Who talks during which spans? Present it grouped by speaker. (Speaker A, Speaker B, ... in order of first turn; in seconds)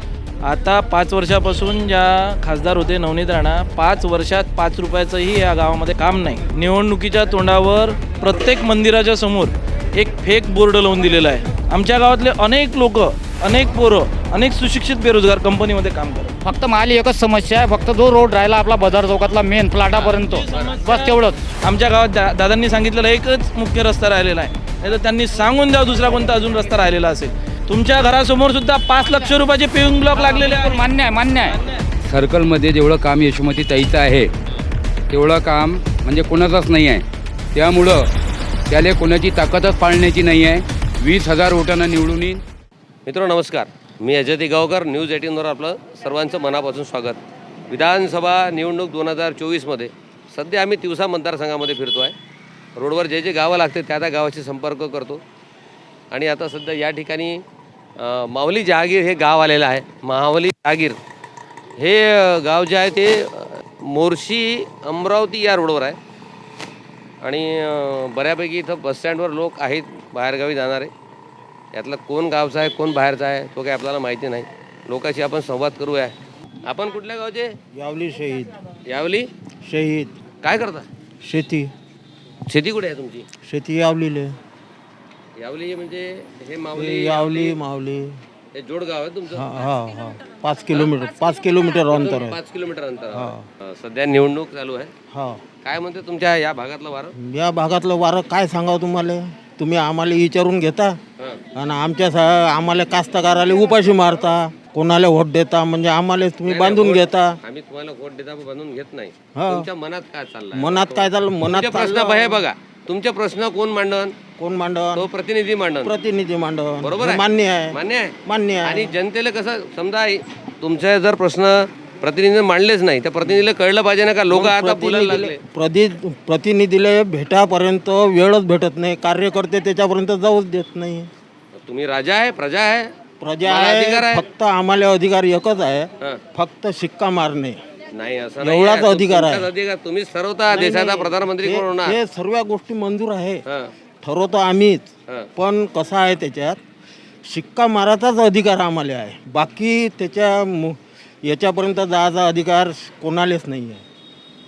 Speaker A: 0.4-16.4, 20.2-30.9, 31.4-31.8
Speaker B: 16.4-21.4, 30.1-31.6
Speaker C: 20.0-20.8, 43.1-52.1, 52.8-55.2, 56.1-57.4, 58.0-61.0, 61.8-66.0, 67.2-70.9, 71.7-76.1, 76.7-77.5, 78.9-79.3, 80.4-80.9, 82.5-83.3, 85.4-87.6, 88.5-89.5, 91.9-94.9, 95.6-97.2, 106.5-114.2, 115.0-116.0, 116.8-125.4, 131.5-132.9, 133.4-134.2, 137.9-142.0
Speaker D: 32.1-34.3, 35.1-38.0, 38.7-42.4
Speaker E: 77.7-78.5, 79.7-80.1, 81.2-81.7, 83.5-84.3, 86.8-88.2, 89.3-92.4, 93.1-93.4, 95.1-95.4, 97.2-101.0, 101.5-107.3, 109.3-109.7, 110.5-112.4, 114.4-115.1, 115.8-118.9, 124.3-131.1, 133.2-137.6, 138.4-139.5, 140.5-143.4, 144.0-146.6, 147.3-153.8